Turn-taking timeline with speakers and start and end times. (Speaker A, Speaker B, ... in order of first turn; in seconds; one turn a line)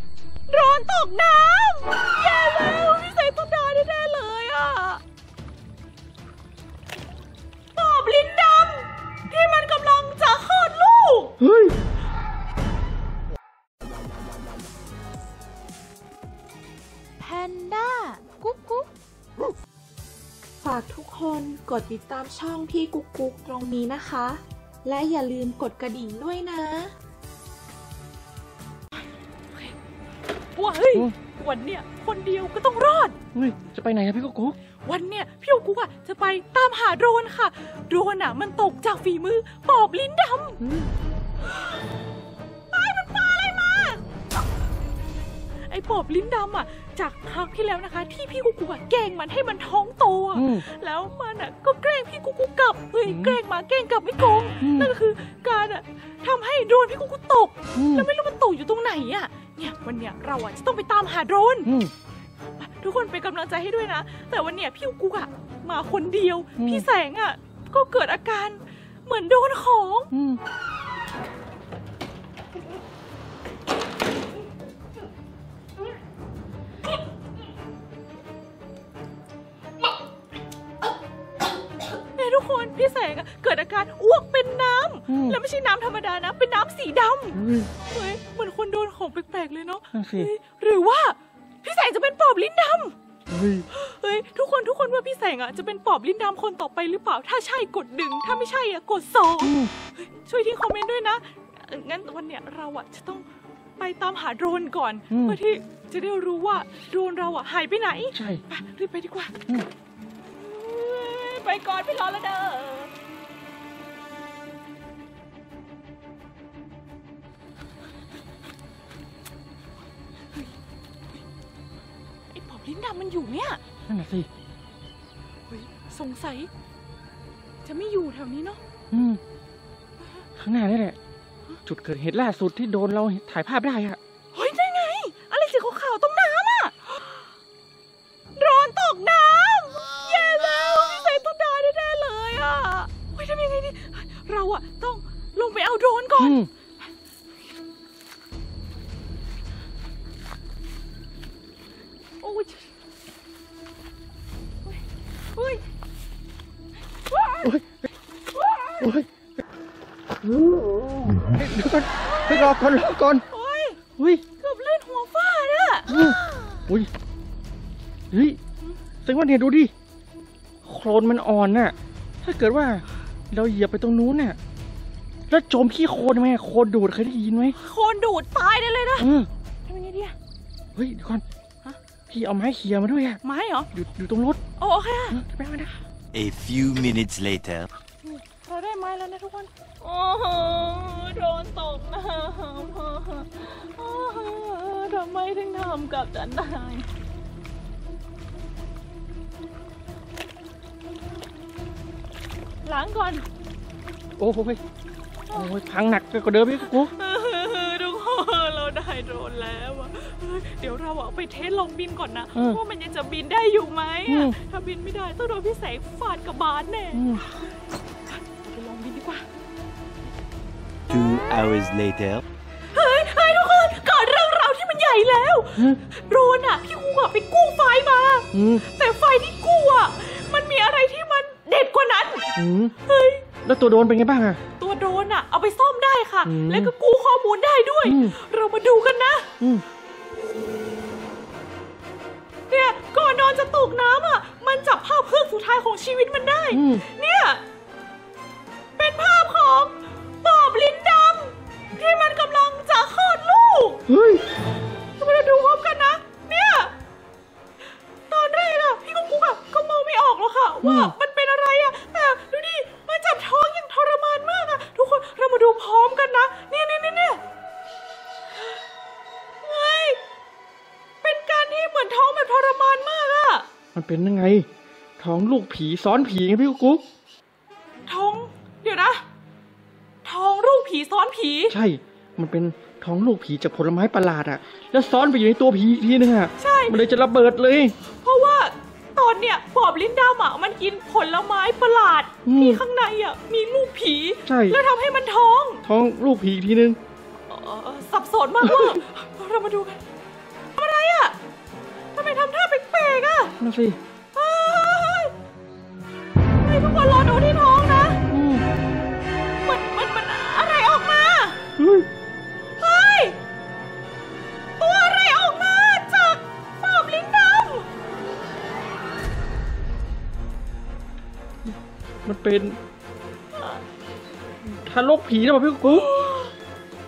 Speaker A: 0.5-5.0
Speaker A: 7.7-11.3
Speaker B: 11.4-11.8
Speaker A: 17.2-18.9
Speaker C: 20.6-26.9
Speaker A: 30.5-33.1
Speaker B: 33.3-34.6
Speaker A: 34.8-40.6
Speaker B: 40.6-40.9
Speaker A: 42.7-44.0
Speaker A: 45.6-61.7
Speaker B: 50.3-50.6
Speaker B: 53.0-53.4
Speaker B: 54.6-54.9
Speaker B: 57.7-58.1
Speaker B: 61.6-61.9
Speaker A: 62.6-70.1
Speaker B: 66.6-66.8
Speaker B: 70.1-70.4
Speaker A: 82.1-92.9
Speaker B: 85.1-85.4
Speaker B: 87.3-87.7
Speaker B: 89.9-90.3
Speaker B: 93.3-93.7
Speaker A: 93.7-103.2
Speaker B: 99.4-99.7
Speaker A: 103.8-109.3
Speaker B: 105.1-105.4
Speaker B: 108.1-108.4
Speaker A: 110.3-112.9
Speaker A: 122.3-123.6
Speaker B: 123.9-124.3
Speaker A: 125.5-126.5
Speaker A: 127.6-128.6
Speaker B: 128.9-129.2
Speaker B: 130.4-131.0
Speaker B: 131.7-134.0
Speaker A: 134.3-137.1
Speaker A: 138.3-146.4
Speaker B: 146.2-146.5
Speaker A: 152.2-152.7
Speaker A: 155.3-155.6
Speaker B: 157.4-157.9
Speaker B: 158.8-159.1
Speaker B: 161.1-163.2
Speaker A: 162.1-162.5
Speaker A: 163.3-163.8
Speaker B: 164.0-164.2
Speaker A: 164.4-166.5
Speaker B: 165.9-166.9
Speaker B: 168.1-168.4
Speaker B: 169.0-169.7
Speaker B: 170.6-174.4
Speaker B: 175.3-177.6
Speaker A: 177.6-179.1
Speaker B: 179.0-179.3
Speaker A: 179.6-180.1
Speaker B: 180.7-181.2
Speaker B: 182.1-183.2
Speaker A: 183.2-183.7
Speaker B: 183.7-184.4
Speaker A: 184.6-185.2
Speaker B: 185.1-185.7
Speaker D: 186.1-187.7
Speaker A: 188.0-196.9
Speaker A: 202.6-203.2
Speaker B: 204.2-204.6
Speaker B: 205.3-206.9
Speaker A: 206.6-217.3
Speaker B: 212.3-212.6
Speaker B: 214.1-214.4
Speaker B: 216.9-217.2
Speaker A: 218.1-219.2
Speaker D: 220.9-222.2
Speaker A: 222.7-233.2
Speaker B: 225.6-225.8
Speaker B: 228.3-228.6
Speaker B: 232.3-232.7
Speaker B: 233.4-234.4
Speaker A: 234.6-239.3
Speaker B: 236.2-236.7
Speaker B: 237.8-238.2
Speaker A: 242.5-247.4
Speaker B: 246.5-246.8
Speaker A: 248.8-253.8
Speaker B: 253.9-254.2
Speaker A: 255.0-256.7
Speaker A: 258.1-267.2
Speaker B: 260.6-260.9
Speaker A: 269.4-270.0
Speaker A: 271.0-273.5
Speaker B: 273.7-274.5
Speaker B: 275.0-276.8
Speaker A: 277.9-279.0
Speaker A: 280.0-281.5
Speaker B: 281.5-287.7
Speaker A: 286.4-286.8
Speaker A: 288.0-295.6
Speaker B: 292.2-292.6
Speaker B: 294.2-294.6
Speaker B: 295.6-296.8
Speaker A: 297.3-299.8
Speaker B: 298.4-298.7
Speaker A: 300.5-301.1
Speaker A: 301.9-303.3
Speaker B: 303.4-303.8
Speaker A: 304.1-305.1
Speaker A: 306.4-308.0
Speaker B: 308.1-308.4
Speaker A: 309.4-311.4
Speaker B: 311.6-311.9
Speaker A: 312.6-313.2
Speaker A: 314.6-317.7
Speaker B: 321.4-322.6
Speaker A: 323.3-323.6
Speaker B: 324.4-325.9
Speaker A: 325.6-326.3